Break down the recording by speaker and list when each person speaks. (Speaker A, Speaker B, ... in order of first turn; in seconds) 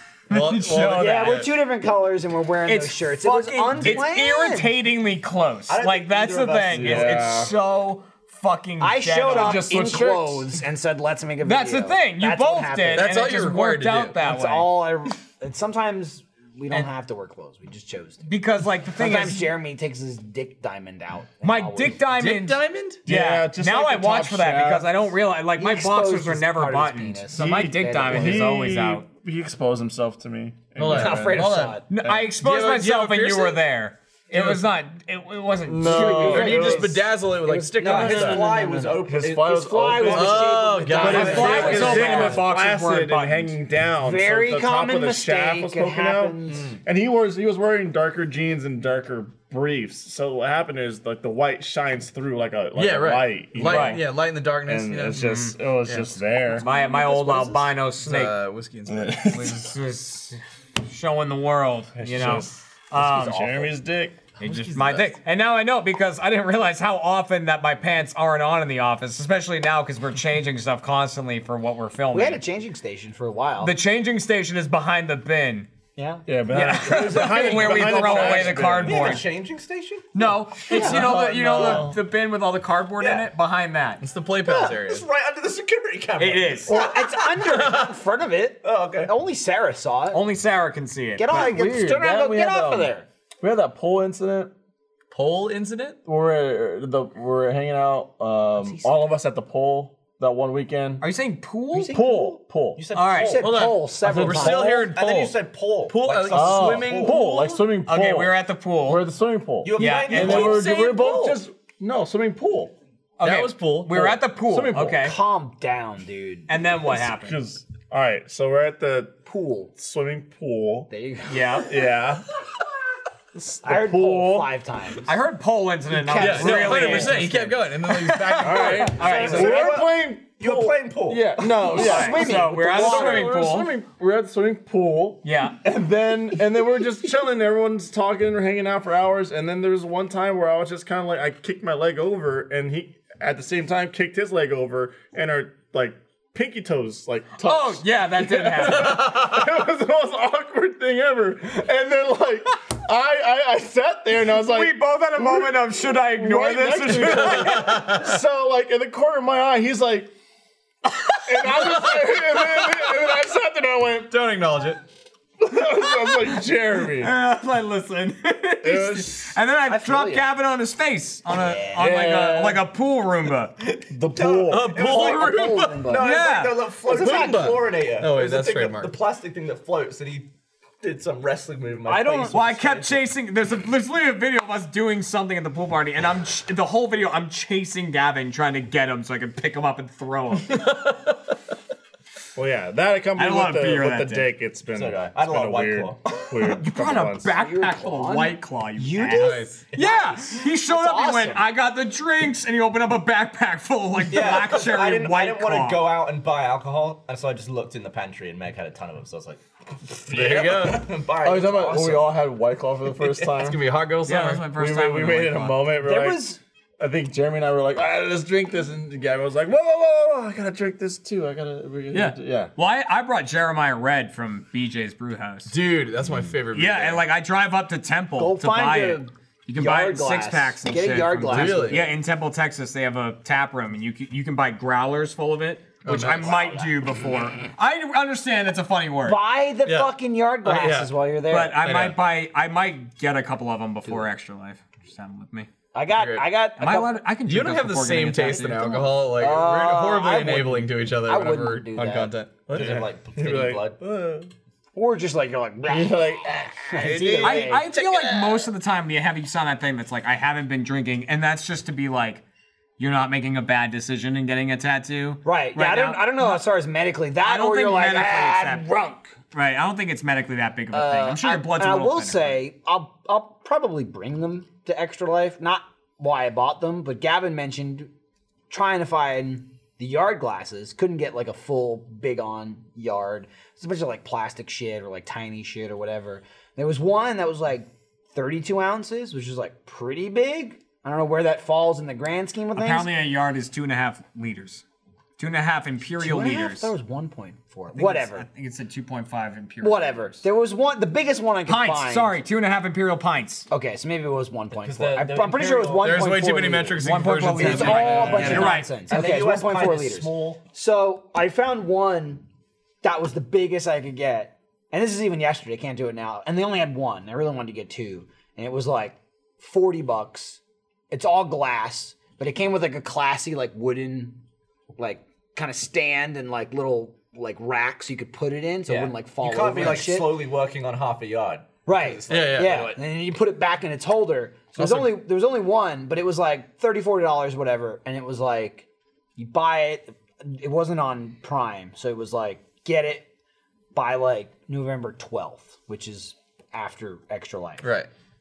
Speaker A: 0.3-1.4, 2.6-9.7, 11.4-14.7, 18.3-19.5, 21.4-29.0, 31.9-36.5, 41.0-43.6, 53.6-54.0, 55.2-55.5, 56.6-58.4, 59.2-63.7, 64.4-72.4, 73.6-75.7, 76.5-79.2, 80.1-84.0, 86.2-86.8, 90.1-91.3, 101.0-101.9, 102.9-103.4, 107.8-109.0, 109.8-110.5, 113.2-115.2, 116.5-117.4, 121.3-121.7, 125.0-129.5, 131.7-133.7, 135.2-135.6, 147.4-149.1, 154.4-157.9, 167.0-173.6, 176.0-176.6, 182.3-190.9, 193.2-194.3, 196.4-205.9, 214.1-215.7, 221.9-225.5, 226.5-239.2, 241.3-245.5, 246.6-248.9, 257.2-262.2, 262.8-266.4, 267.2-268.6, 269.3-272.4, 292.6-294.6, 295.2-296.7, 297.7-300.2, 301.4-303.5, 306.8-308.7
Speaker B: 0.3-1.5, 12.9-14.2, 22.1-23.0, 30.8-33.6, 34.3-34.6, 36.3-38.4, 40.1-42.1, 52.7-56.2, 57.1-59.5, 84.0-85.0, 95.1-96.0, 103.4-105.3, 105.9-107.5, 110.1-111.4, 113.2-114.0, 126.1-129.0, 148.9-149.4, 157.2-158.1, 161.5-162.8, 164.1-164.8, 174.5-175.9, 176.9-178.9, 199.1-199.6, 210.1-210.9, 213.3-214.5, 225.5-227.0, 231.3-231.9, 235.8-236.5, 239.7-239.9, 240.4-240.9, 241.6-242.0, 246.0-246.2, 247.2-252.6, 257.6-258.5, 305.8-308.6, 332.1-332.7, 334.6-334.8, 347.6-347.9
Speaker C: 0.8-4.7, 8.8-13.1, 14.2-18.2, 18.9-22.0, 25.6-28.5, 30.9-31.8, 35.8-42.4, 44.0-46.7, 72.1-73.8, 76.0-76.2, 76.9-77.3, 80.7-81.1, 84.5-84.7, 86.7-90.2, 91.2-93.0, 98.6-98.9, 101.7-102.4, 103.2-104.9, 115.0-116.5, 119.2-119.7, 120.9-121.7, 123.6-125.1, 126.1-127.2, 128.9-129.8, 131.7-133.4, 169.7-170.3, 171.3-171.9, 174.8-176.1, 176.9-177.3, 181.9-182.4, 197.3-201.4, 215.8-216.4, 228.2-231.8, 239.0-241.6, 245.7-246.9, 249.2-252.1, 254.7-257.7, 265.2-269.1, 270.7-277.9, 278.5-292.9, 296.0-298.3, 299.6-302.2, 303.5-312.2, 312.8-320.4, 320.9-324.2, 324.8-330.2, 331.6-338.6, 339.2-343.1, 343.7-347.6
Speaker D: 5.7-7.2, 37.8-42.1, 64.4-65.1, 77.8-80.1, 83.0-83.3, 84.5-87.8, 88.6-89.1, 102.8-103.6, 104.3-107.2, 109.6-110.7, 126.2-126.9, 129.0-131.8, 173.6-180.3, 180.8-183.0, 194.7-196.3, 204.0-212.1, 252.5-253.8, 304.5-306.2, 307.7-310.4, 328.7-332.8
Speaker E: 6.7-7.5, 9.2-10.5, 23.1-25.0, 27.3-32.3, 35.6-37.1, 38.0-38.5, 39.0-40.5, 41.0-56.7, 58.9-59.7, 62.0-64.2, 76.3-79.2, 80.7-82.0, 91.3-94.5, 96.0-101.0, 101.9-102.8, 104.0-104.7, 106.3-108.3, 108.9-112.7, 113.9-115.1, 116.9-119.2, 119.8-120.9, 121.7-122.2, 123.4-124.5, 128.4-160.1, 161.2-164.1, 165.4-167.1, 168.6-169.3, 171.8-172.6, 173.9-174.9, 192.3-197.3, 211.2-213.6, 214.5-222.5, 226.0-226.3, 252.5-254.3, 255.7-257.5, 307.5-308.4